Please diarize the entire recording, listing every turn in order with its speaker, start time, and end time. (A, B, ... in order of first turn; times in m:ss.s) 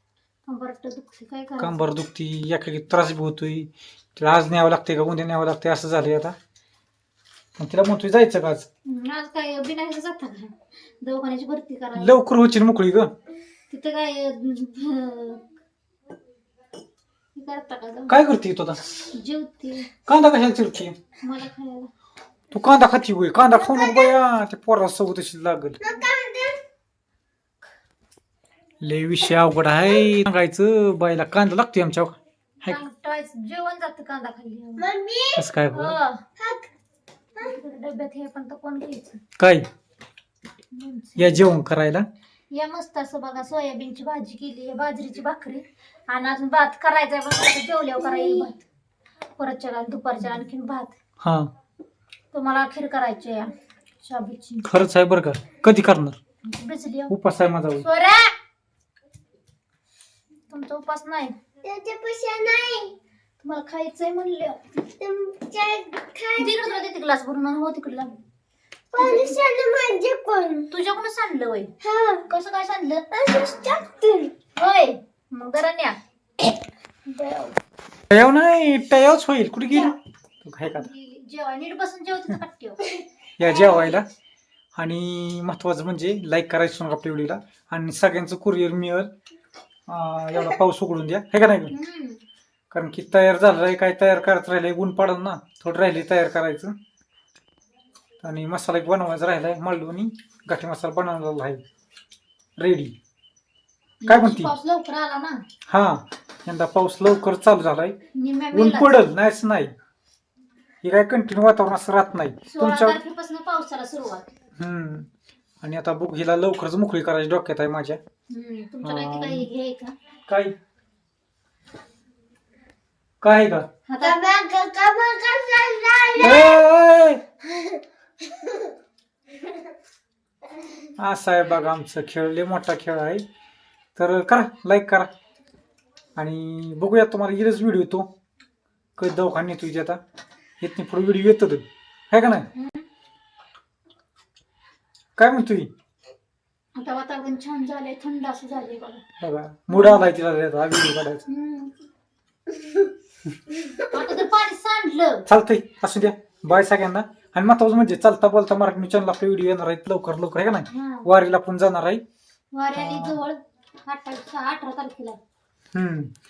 0:00.5-0:01.8 A
0:01.6-0:06.4 B
0:07.6-0:08.6 B
0:08.8-0:12.1 A
0:11.9-0:13.1 B
0:13.7-0:15.5 A
0:17.3-0:18.2 A
0:18.1-0:18.8 B
0:19.1-0:19.9 A
0:20.0-0:21.0 B
0:21.2-0:21.9 A
0:22.5-0:25.8 B
0:23.5-0:24.2 C
0:25.8-0:26.6 C
0:25.8-0:26.1 A
0:28.8-0:32.8 B
0:32.6-0:34.9 A
0:34.8-0:35.5 C
0:35.3-0:36.0 B
0:35.7-0:36.2 A
0:36.4-0:36.7 C
0:37.4-0:39.2 A
0:39.4-0:39.6 B
0:40.7-0:41.5 A
0:41.2-0:42.1 B
0:42.5-0:48.6 A
0:49.4-0:50.9 A
0:51.2-0:51.5 B
0:52.3-0:54.6 A
0:54.6-0:56.2 B
0:56.4-0:57.1 A
0:57.1-0:57.8 B
0:57.8-0:58.3 A
1:00.5-1:01.3 A
1:01.6-1:02.9 C
1:03.4-1:04.6 A
1:05.0-1:06.8 C
1:06.4-1:08.1 A
1:08.9-1:10.7 C
1:09.0-1:09.4 A
1:10.7-1:11.7 A
1:11.8-1:12.3 C
1:12.3-1:13.1 A
1:13.1-1:14.3 C
1:14.5-1:16.0 A
1:17.1-1:17.5 C
1:18.1-1:20.9 B
1:20.8-1:22.8 A
1:23.4-1:24.0 B
1:24.7-1:29.1 B
1:29.9-1:31.7 B
1:31.7-1:32.2 A
1:32.7-1:36.7 B
1:38.2-1:41.6 B
1:42.6-1:42.9 B
1:44.0-1:45.4 A
1:44.1-1:44.5 B
1:45.7-1:48.0 B
1:48.1-1:49.0 A
1:48.5-1:49.7 B
1:50.8-1:53.0 B
1:52.4-1:54.3 A
1:54.6-1:55.1 B
1:55.6-1:58.0 B
1:58.3-1:59.9 A
1:58.8-1:59.5 B
2:00.3-2:00.5 B
2:03.2-2:03.7 B
2:03.9-2:04.2 A
2:04.0-2:06.6 C
2:06.2-2:07.2 B
2:07.4-2:08.7 C
2:11.0-2:13.2 B
2:14.0-2:15.1 B
2:16.2-2:18.1 B
2:19.0-2:20.0 B
2:20.6-2:22.5 B
2:22.6-2:22.9 A
2:25.2-2:25.7 B
2:26.7-2:29.0 A
2:29.2-2:31.2 B
2:29.7-2:30.1 A
2:31.3-2:31.7 A
2:33.7-2:35.2 A
2:35.3-2:42.0 B
2:40.7-2:41.1 A
2:42.5-2:45.2 A
2:42.7-2:43.2 B
2:45.7-2:46.1 B